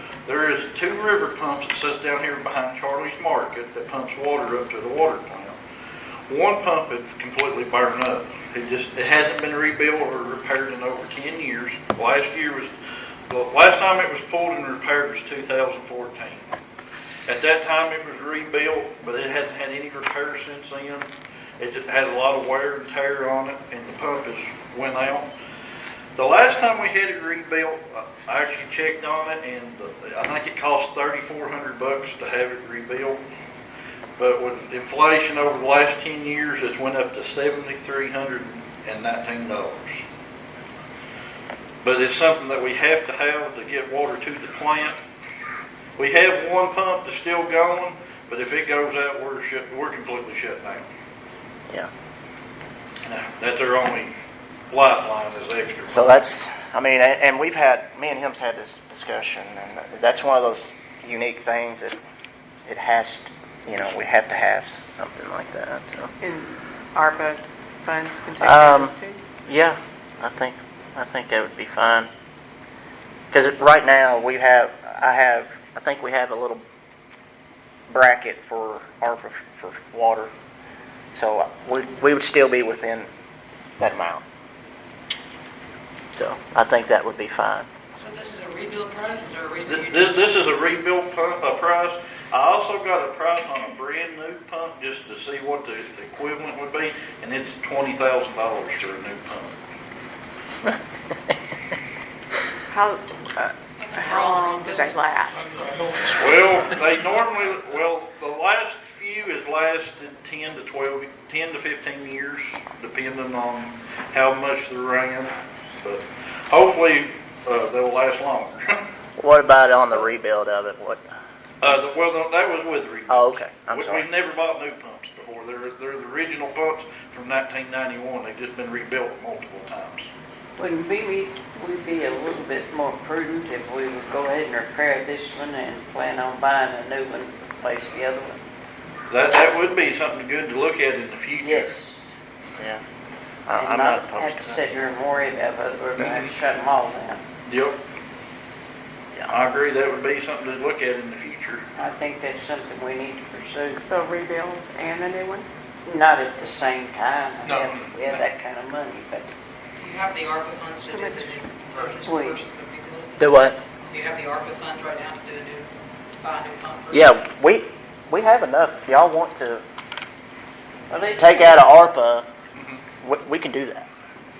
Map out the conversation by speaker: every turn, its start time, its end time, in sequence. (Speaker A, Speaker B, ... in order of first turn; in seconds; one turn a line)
Speaker A: 0.2-5.6
Speaker A: 6.3-12.7
Speaker A: 13.3-16.6
Speaker A: 17.3-25.3
Speaker A: 26.1-33.2
Speaker A: 34.2-40.0
Speaker A: 41.8-45.0
Speaker A: 46.0-50.9
Speaker A: 53.0-54.1
Speaker A: 54.7-56.1
Speaker B: 55.9-62.0
Speaker B: 62.6-66.1
Speaker C: 66.2-69.2
Speaker B: 68.4-68.9
Speaker B: 69.5-72.1
Speaker B: 73.3-76.6
Speaker B: 77.9-80.3
Speaker B: 81.1-83.1
Speaker B: 83.8-84.2
Speaker B: 86.1-87.7
Speaker D: 88.0-90.2
Speaker A: 89.7-99.5
Speaker C: 102.7-106.6
Speaker D: 103.8-105.0
Speaker A: 106.2-118.8
Speaker B: 119.2-121.0
Speaker A: 121.6-130.1
Speaker B: 123.1-124.1
Speaker E: 130.6-138.4
Speaker A: 139.1-141.8
Speaker E: 141.4-142.0
Speaker B: 143.5-144.6
Speaker E: 143.6-147.2
Speaker A: 146.0-146.3
Speaker A: 147.5-147.8
Speaker A: 149.3-151.6
Speaker E: 151.8-153.8
Speaker C: 153.8-155.5
Speaker E: 155.8-159.3
Speaker C: 157.4-157.7
Speaker D: 159.8-163.2
Speaker C: 160.9-161.4
Speaker E: 162.0-162.4
Speaker B: 163.2-163.6
Speaker D: 163.8-165.7
Speaker D: 166.2-167.1
Speaker B: 166.9-169.6
Speaker E: 170.9-171.7
Speaker B: 171.2-172.2
Speaker B: 173.0-173.9